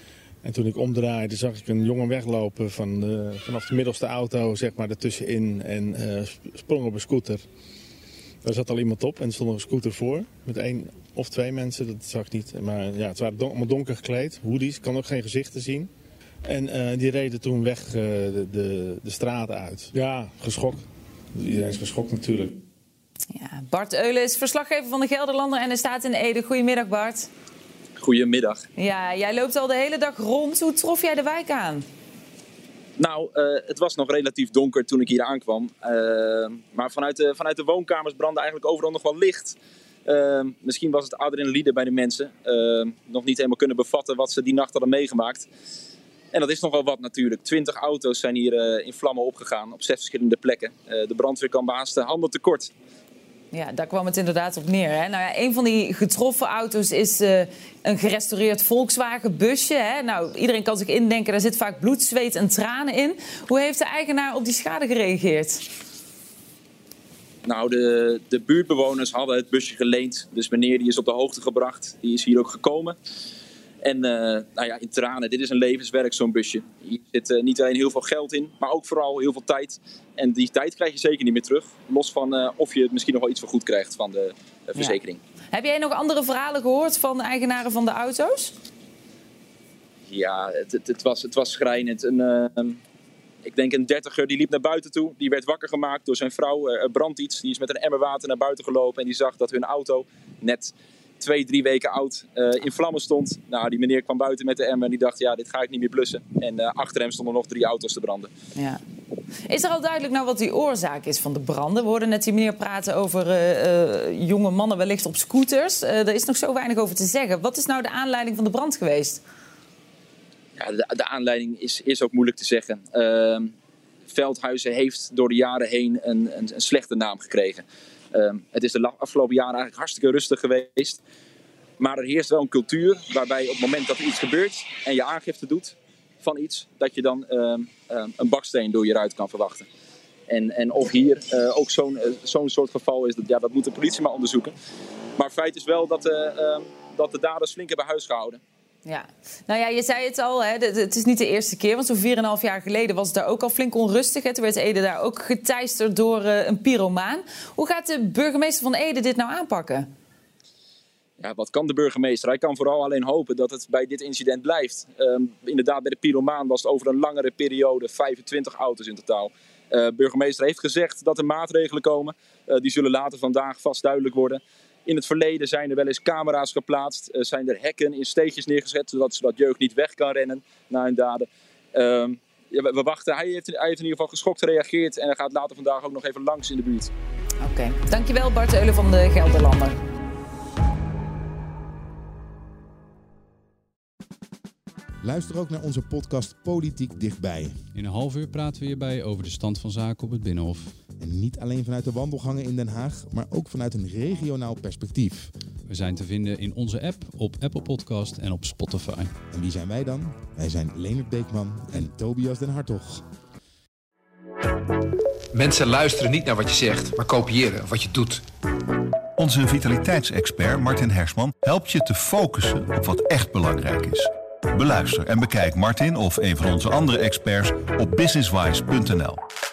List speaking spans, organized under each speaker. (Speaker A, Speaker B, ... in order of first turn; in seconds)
Speaker A: 0.4-7.4, 8.4-15.9, 16.4-20.8, 21.4-22.5
Speaker B: 23.3-27.3, 28.8-31.9, 53.5-65.6, 85.5-88.5, 108.5-108.8, 109.5-119.2, 148.8-159.9, 187.4-189.8
Speaker C: 28.0-28.6, 33.0-45.5, 46.3-52.7, 67.5-73.0, 73.8-85.2, 90.1-92.8, 93.5-108.3, 120.6-123.5, 124.1-131.0, 131.8-139.7, 140.3-144.5, 145.2-148.4, 161.2-186.9
Speaker D: 195.0-197.6, 201.0-205.3, 209.3-213.0
Speaker E: 197.7-200.7, 205.7-209.1
Speaker F: 215.3-218.2
Speaker G: 219.2-229.2